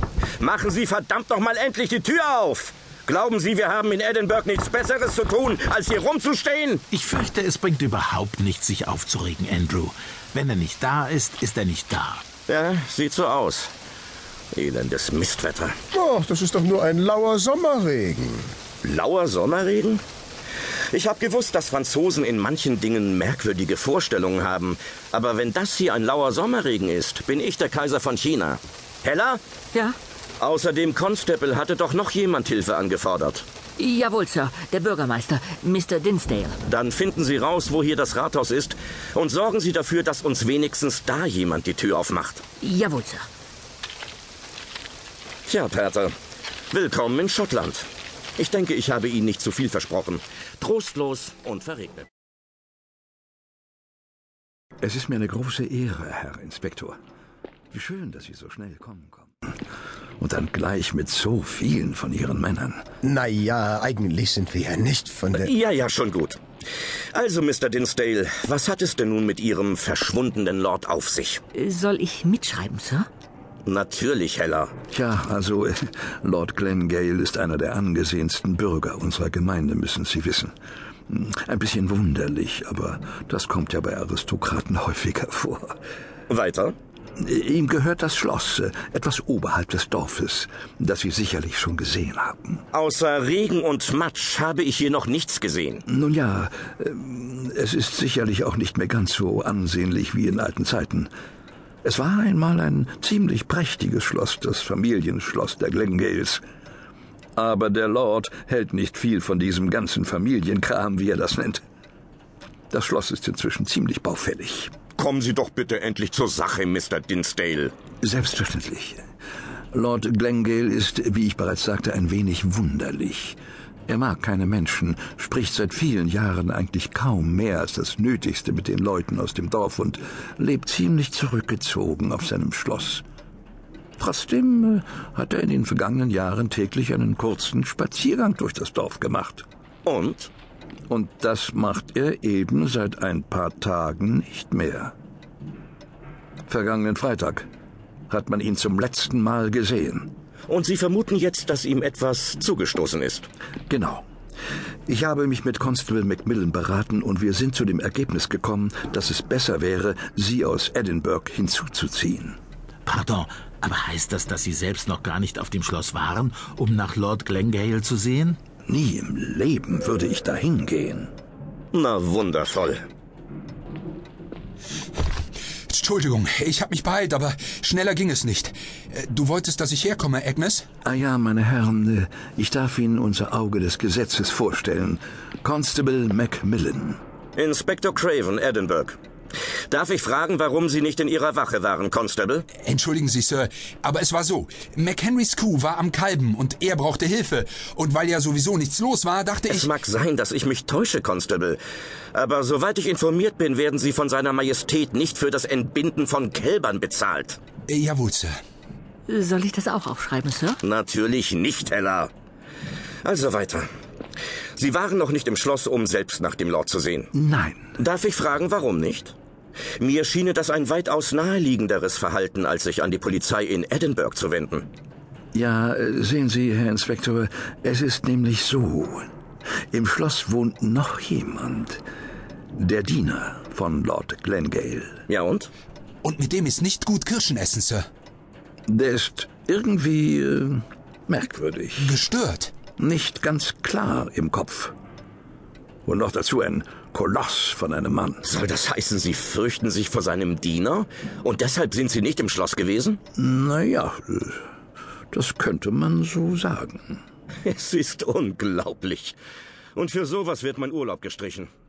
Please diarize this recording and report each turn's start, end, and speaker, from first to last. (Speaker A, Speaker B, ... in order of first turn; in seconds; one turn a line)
Speaker A: 0.4-6.8
Speaker B: 6.9-12.2
Speaker A: 12.5-13.7
Speaker A: 14.5-15.8
Speaker C: 15.9-18.5
Speaker A: 18.8-20.0
Speaker A: 20.9-29.4
Speaker A: 30.4-33.5
Speaker D: 33.8-36.6
Speaker A: 36.6-42.4
Speaker D: 42.6-43.3
Speaker A: 45.5-46.1
Speaker A: 46.7-52.1
Speaker E: 54.8-57.0
Speaker E: 57.7-59.4
Speaker E: 60.2-62.8
Speaker C: 63.0-65.5
Speaker A: 65.3-66.4
Speaker A: 67.1-71.4
Speaker D: 71.5-73.1
Speaker A: 73.7-74.7
Speaker E: 74.9-80.5
Speaker E: 81.1-85.8
Speaker A: 86.3-86.8
Speaker E: 87.2-92.6
Speaker A: 92.7-95.8
Speaker E: 95.9-101.1
Speaker E: 101.8-106.4
Speaker E: 107.4-111.6
Speaker E: 112.7-114.7
Speaker A: 115.0-117.7
Speaker E: 118.0-119.0
Speaker E: 119.7-133.0
Speaker E: 134.0-139.4
Speaker A: 139.8-140.3
Speaker E: 140.9-144.9
Speaker E: 146.5-147.5
Speaker E: 148.1-150.1
Speaker A: 150.5-153.3
Speaker E: 153.7-154.0
Speaker E: 154.9-162.4
Speaker B: 162.9-168.4
Speaker E: 168.7-171.1
Speaker A: 171.7-172.8
Speaker F: 175.7-180.7
Speaker E: 180.8-187.0
Speaker A: 187.4-189.0
Speaker A: 189.7-192.5
Speaker F: 192.6-199.7
Speaker A: 199.4-201.6
Speaker A: 202.1-207.4
Speaker F: 207.7-208.3
Speaker D: 209.1-210.6
Speaker A: 210.6-212.1
Speaker A: 213.0-213.7
Speaker A: 214.6-217.1
Speaker E: 217.1-217.7
Speaker A: 217.8-219.2
Speaker A: 219.8-224.7
Speaker E: 225.3-229.1
Speaker E: 229.7-231.8
Speaker E: 232.6-235.0
Speaker A: 235.1-235.5
Speaker F: 236.0-237.8
Speaker E: 238.7-242.0
Speaker F: 241.8-242.6
Speaker E: 242.8-244.8
Speaker E: 245.9-248.2
Speaker A: 248.2-253.0
Speaker E: 253.2-254.4
Speaker E: 255.1-257.0
Speaker A: 257.4-259.2
Speaker A: 259.8-261.5